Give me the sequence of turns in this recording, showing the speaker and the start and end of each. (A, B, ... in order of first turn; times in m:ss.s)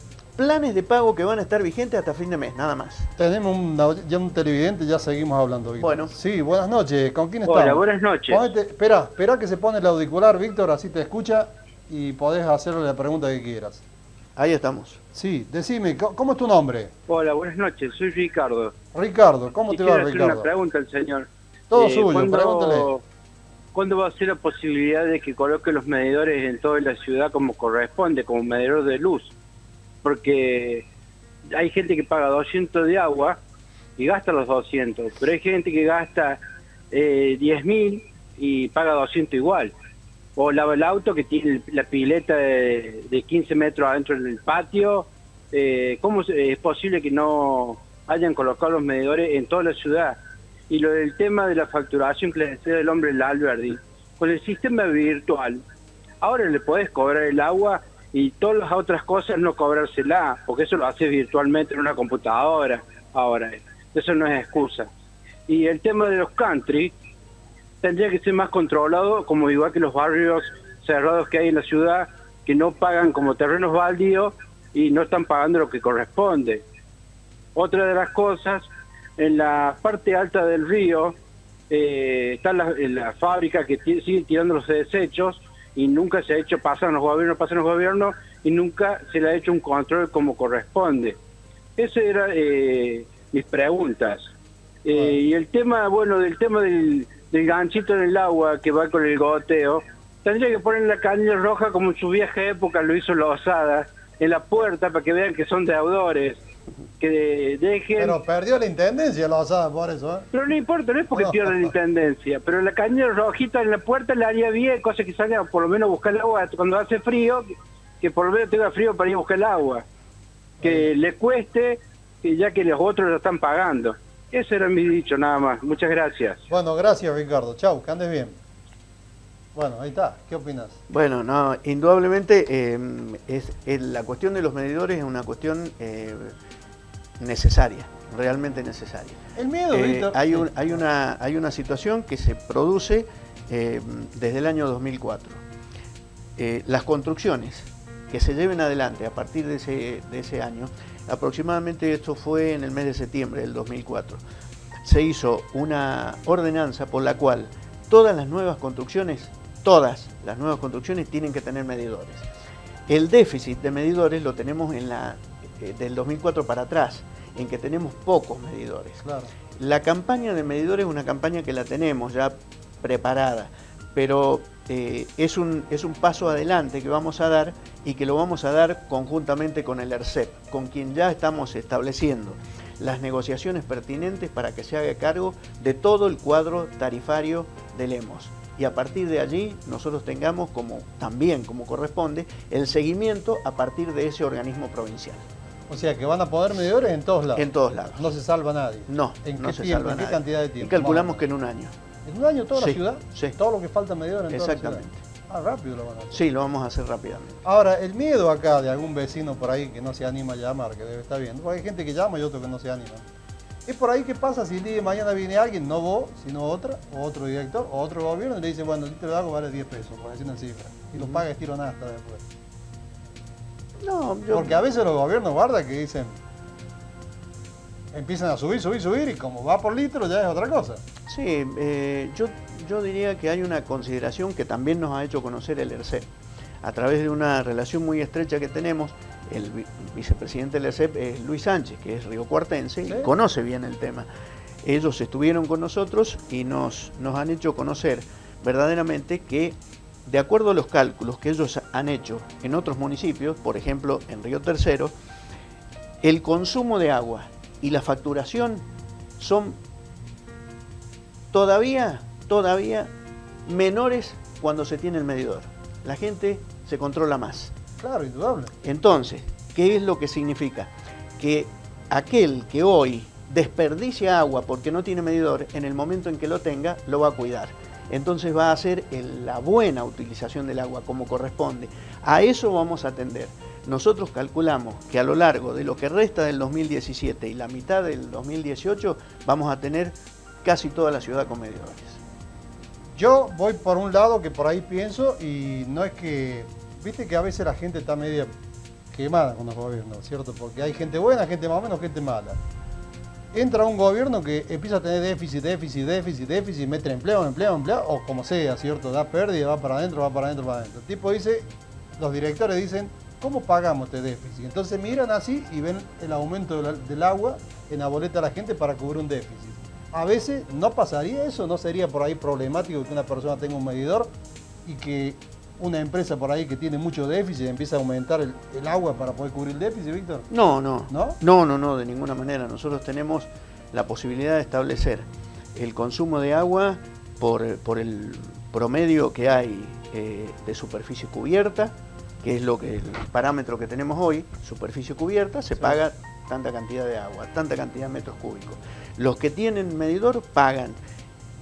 0:00.4-0:03.1 A
0:03.2-0:13.8 B
0:05.8-0:06.1 A
0:07.4-0:08.5 C
0:14.4-0:15.0 A
0:15.1-0:16.9 B
0:17.1-0:18.7 C
0:18.9-0:20.5 B
0:19.7-0:23.0 C
0:21.7-0:22.9 B
0:23.7-0:29.3 C
0:30.0-0:30.8 C
0:31.5-0:33.4 C
0:34.0-0:36.4 C
0:36.9-0:39.7 C
0:40.4-0:50.2 C
0:50.7-0:55.6 C
0:56.2-1:04.9 C
1:05.5-1:06.9 C
1:07.8-1:16.6 C
1:17.6-1:18.6 C
1:19.2-1:21.1 C
1:21.7-1:31.1 C
1:31.8-1:34.2 C
1:34.8-1:46.4 C
1:47.0-1:48.2 C
1:48.0-1:50.3 B
1:50.3-1:59.8 C
1:51.1-1:51.7 B
2:00.6-2:00.9 B
2:00.6-2:06.4 C
2:06.5-2:08.4 B
2:09.5-2:10.8 B
2:10.9-2:16.3 A
2:17.2-2:25.4 A
2:19.4-2:20.5 B
2:26.4-2:34.2 A
2:34.8-2:42.2 A
2:42.9-2:49.0 A
2:49.0-2:49.3 B
2:49.6-3:15.2 A
3:15.7-3:21.2 B
3:17.4-3:18.1 A
3:18.9-3:21.7 A
3:22.0-3:26.2 B
3:22.5-3:23.4 A
3:24.3-3:25.0 A
3:26.1-3:27.4 A
3:27.4-3:33.0 B
3:33.6-3:42.2 B
3:40.9-3:41.2 A
3:43.8-3:44.6 A
3:44.3-3:46.2 B
3:47.9-3:50.8 B
3:51.1-3:56.1 A
3:56.6-4:04.1 A
4:04.6-4:14.9 A
4:16.0-4:18.6 A
4:19.2-4:19.6 A
4:21.3-4:22.9 A
4:23.4-4:27.5 A
4:27.8-4:28.5 B
4:28.6-4:52.0 A
4:52.9-4:58.3 B
4:58.9-5:02.4 B
5:03.3-5:24.1 B
5:24.6-5:30.3 B
5:30.3-5:50.8 A
5:30.9-5:31.2 B